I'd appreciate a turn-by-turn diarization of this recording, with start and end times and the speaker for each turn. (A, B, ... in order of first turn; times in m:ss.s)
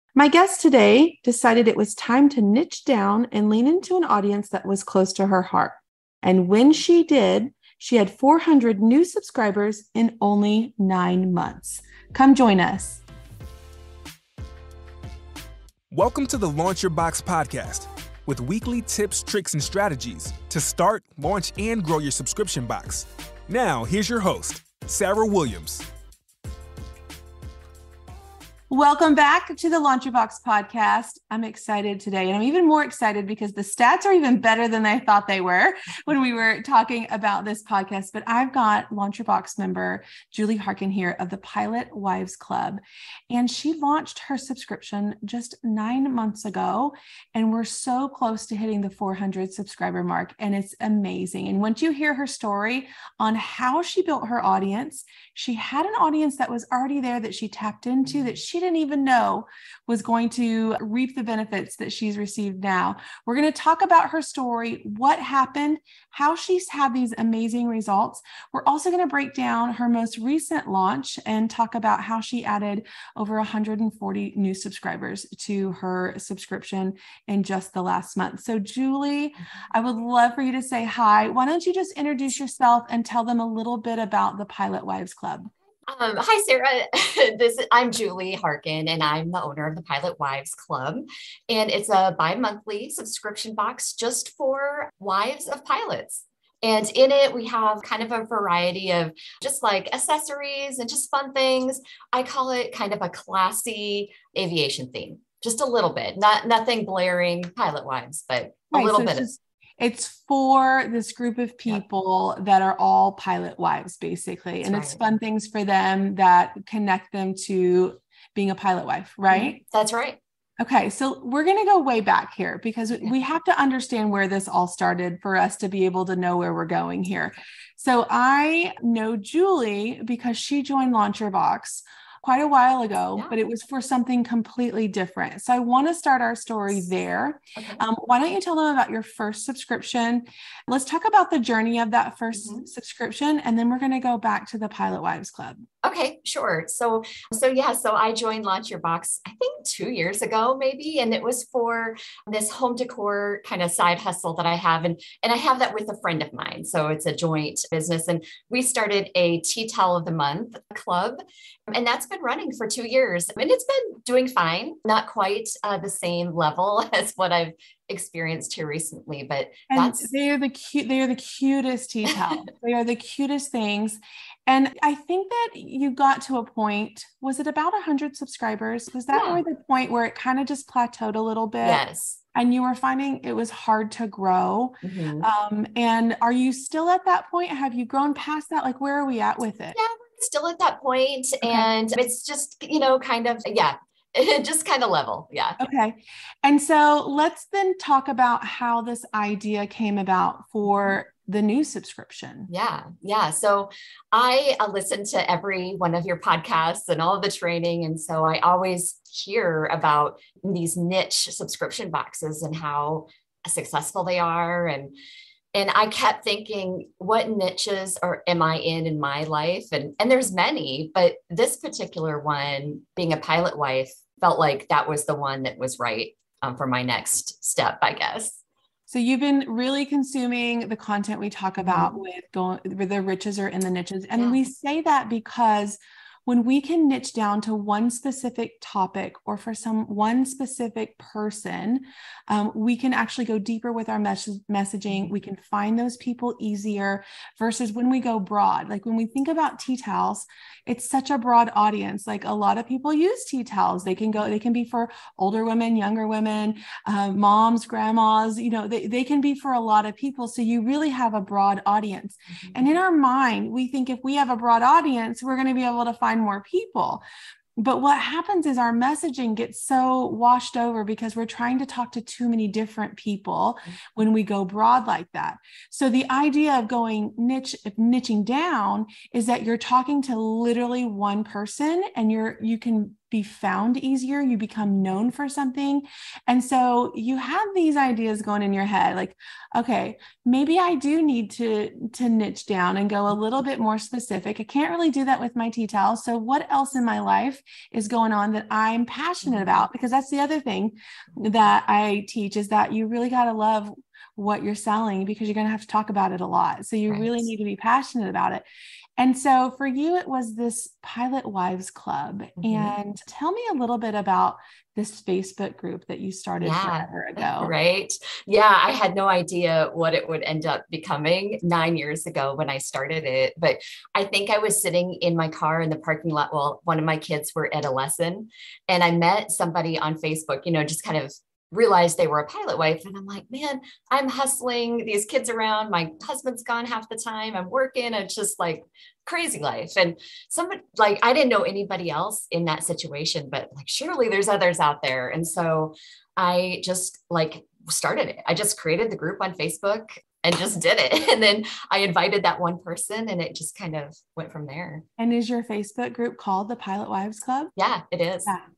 0:00.1-0:13.0 A
0:15.9-0:25.8 B
0:28.7-1:25.5 A
1:25.9-1:49.3 C
1:48.7-1:59.6 A
1:54.6-1:55.0 C
1:59.3-2:00.2 C
2:00.6-2:25.6 A
2:17.6-2:17.8 C
2:22.4-2:22.7 C
2:25.8-2:50.1 C
2:49.7-3:01.8 A
2:59.1-2:59.4 C
3:01.6-3:02.2 C
3:02.3-3:09.8 A
3:04.8-3:05.3 C
3:09.7-3:15.6 C
3:11.4-3:11.7 A
3:15.6-3:22.5 A
3:22.5-3:34.9 C
3:35.5-3:48.4 C
3:48.9-4:27.0 A
3:51.6-3:52.0 C
3:54.1-3:54.4 C
4:22.4-4:22.7 C
4:27.6-5:08.4 A
4:59.2-4:59.6 C
5:06.9-5:07.2 C
5:09.0-5:17.5 A
5:12.4-5:12.7 C
5:16.4-5:54.8 C
5:55.0-5:57.5 A
5:57.6-5:58.3 C